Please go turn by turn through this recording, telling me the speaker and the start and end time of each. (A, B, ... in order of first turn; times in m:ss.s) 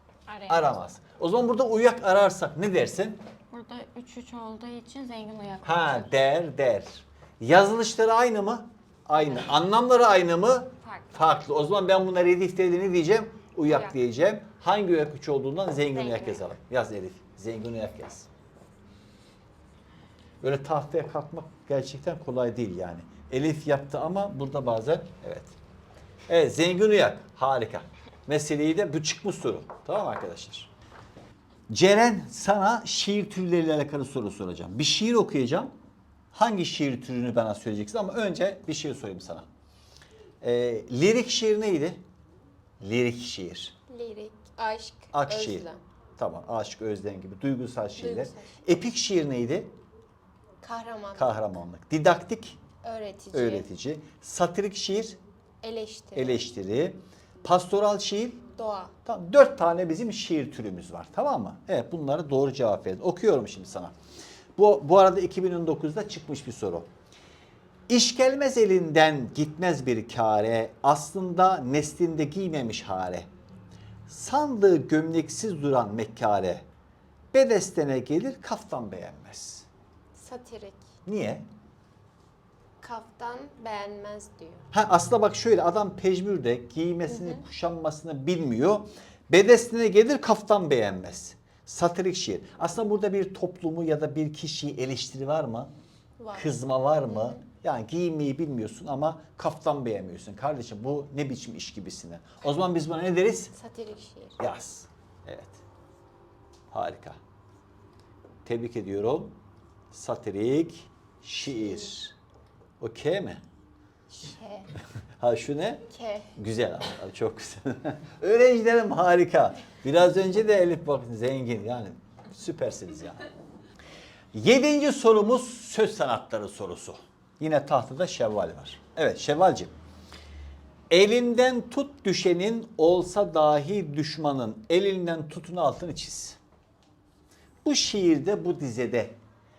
0:00.3-0:00.8 A
0:00.5-0:03.2 B
0:03.5-0:06.1 A
0:05.6-0:18.3 B
0:09.1-0:09.4 A
0:10.8-0:11.1 A
0:13.7-0:13.9 A
0:15.9-0:16.4 A
0:20.4-0:25.5 B
0:26.3-0:30.7 B
0:31.7-0:35.7 B
0:36.3-0:39.4 B
0:40.4-0:42.0 B
0:42.8-0:43.8 B
0:43.9-0:45.8 C
0:45.1-0:45.6 B
0:46.2-0:49.7 B
0:48.0-0:48.3 C
0:50.6-0:51.3 C
0:51.2-0:52.6 B
0:52.8-0:53.7 C
0:53.3-0:55.2 B
0:55.6-0:56.4 C
0:56.1-0:58.4 B
0:58.6-0:58.9 C
0:59.0-1:03.9 B
1:04.6-1:06.9 B
1:07.9-1:13.3 B
1:14.1-1:16.6 B
1:17.3-1:19.7 B
1:20.1-1:20.8 C
1:21.0-1:21.4 B
1:22.8-1:24.6 C
1:24.7-1:35.7 B
1:27.1-1:27.4 C
1:36.2-1:36.5 C
1:36.3-1:43.5 B
1:43.5-1:44.4 C
1:44.4-1:45.6 B
1:46.7-1:47.2 B
1:48.4-1:49.3 B
1:49.9-1:52.1 B
1:52.8-1:53.4 B
1:54.1-1:54.7 C
1:55.2-2:03.2 B
1:55.9-1:56.3 C
2:04.3-2:09.7 B
2:10.9-2:16.4 B
2:17.6-2:19.2 B